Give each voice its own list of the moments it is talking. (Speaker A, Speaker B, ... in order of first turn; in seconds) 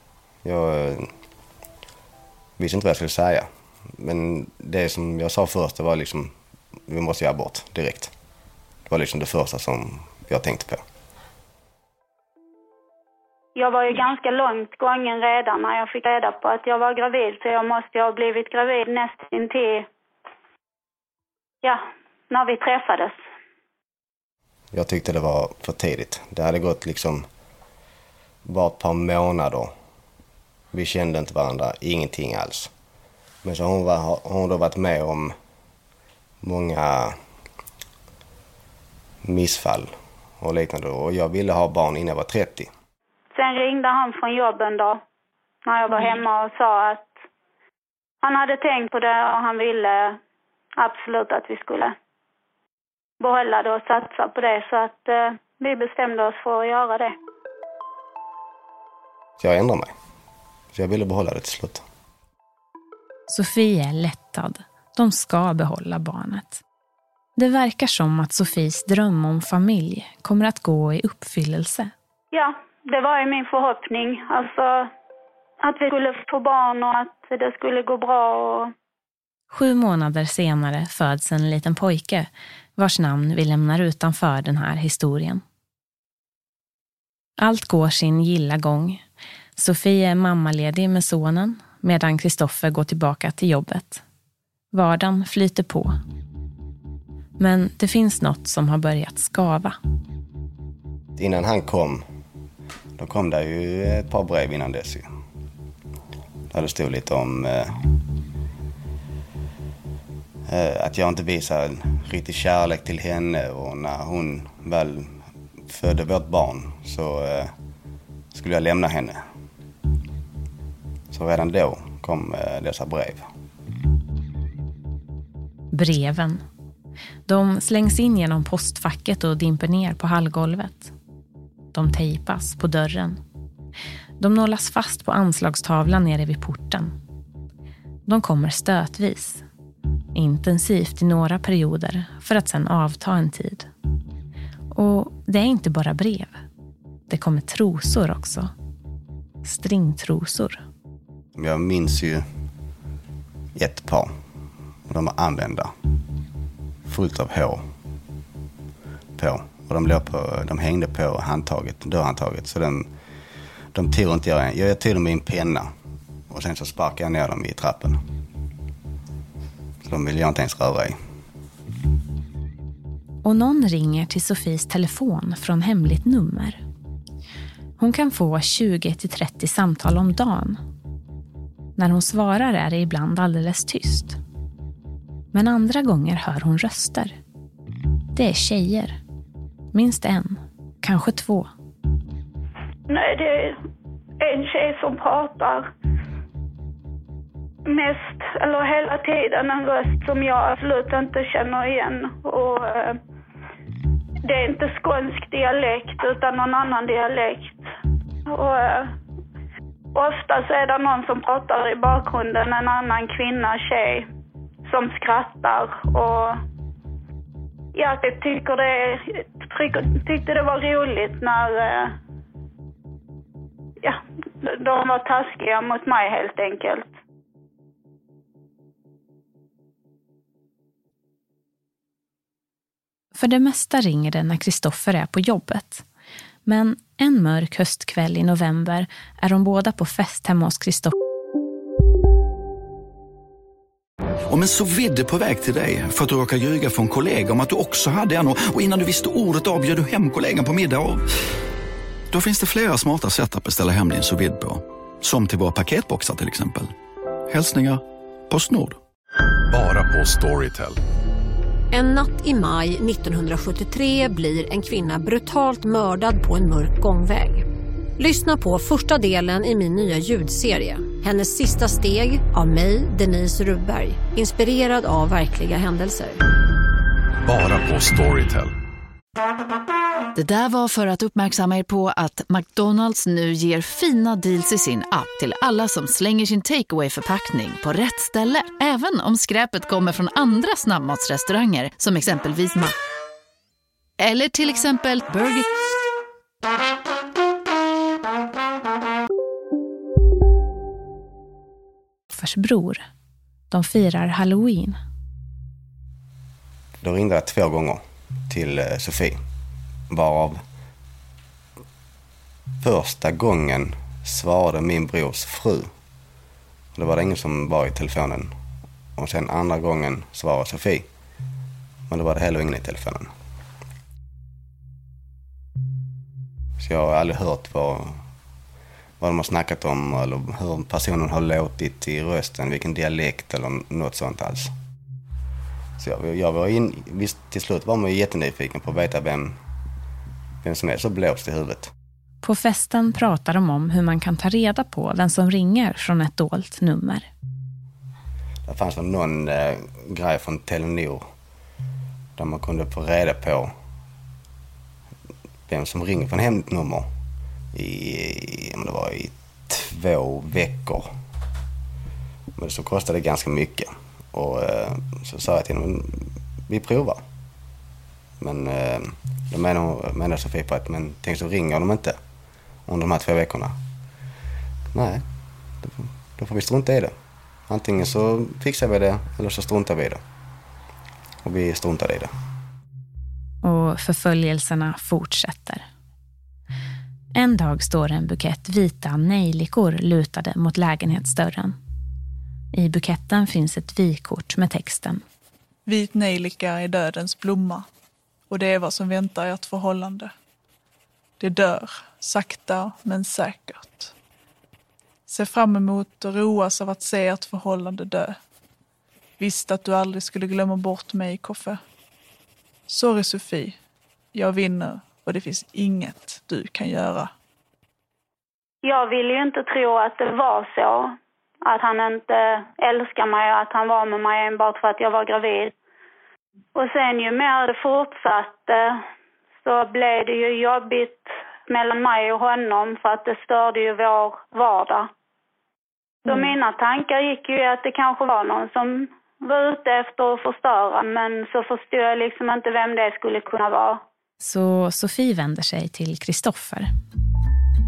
Speaker A: 0.4-1.1, 2.6-6.3, 6.9-8.1, 8.9-10.8, 24.7-27.3, 28.4-29.7, 30.7-32.7, 33.4-35.4, 36.4-37.2, 39.2-42.7, 59.4-59.9, 60.7-61.8, 101.2-102.0, 103.0-105.1, 106.5-107.8, 110.5-117.5, 118.3-119.2, 121.1-123.3, 151.3-152.2, 153.5-154.1, 154.9-155.7, 156.8-157.7, 159.2-162.9, 163.7-165.7, 166.3-168.0, 169.8-171.0, 306.8-309.2, 309.9-310.4, 312.6-315.7, 316.7-318.3, 319.0-320.9, 321.9-323.1, 326.6-328.0, 329.0-334.5, 335.8-339.4, 340.4-341.7, 348.4-351.1, 352.1-353.5, 355.5-356.9, 357.5-360.9, 362.4-367.0, 368.2-372.0, 372.6-373.6, 374.7-375.0, 375.6-376.9, 377.5-380.0, 381.2-382.1
Speaker B: 13.6-19.9, 21.6-23.2, 43.3-45.0, 45.6-47.2, 48.2-50.2, 50.8-51.9, 53.2-57.1, 72.3-74.9, 75.6-78.7, 192.9-193.6, 194.2-195.7, 197.7-203.0, 204.2-207.7, 208.3-208.9, 209.9-214.1, 214.7-216.4, 217.7-221.9, 223.8-226.9, 418.6-425.5, 426.5-428.8, 429.4-434.9, 436.0-443.8
Speaker C: 63.3-66.6, 67.4-71.9, 79.5-85.4, 87.4-89.0, 89.5-94.0, 94.7-96.0, 97.4-99.8, 125.7-126.4, 127.3-130.9, 131.7-133.2, 134.2-136.9, 138.1-139.4, 140.1-143.7, 144.7-146.4, 147.1-148.5, 149.4-150.6, 173.2-176.6, 177.8-180.6, 181.8-184.2, 185.3-187.2, 188.1-189.0, 189.7-191.5, 233.1-235.8, 236.4-240.9, 302.1-302.8, 303.5-304.8, 342.2-347.1, 383.4-385.6, 387.1-391.6, 392.5-395.0, 444.2-446.7
Speaker D: 244.3-251.1, 252.1-256.7, 257.3-258.8
Speaker E: 259.5-260.8, 277.2-278.5
Speaker F: 261.7-267.4, 268.0-276.2
Speaker G: 280.1-292.7, 294.0-295.4
Speaker H: 395.6-397.7, 398.3-400.1, 401.2-403.9, 405.1-408.2, 409.2-411.6, 412.7-413.6, 414.1-417.1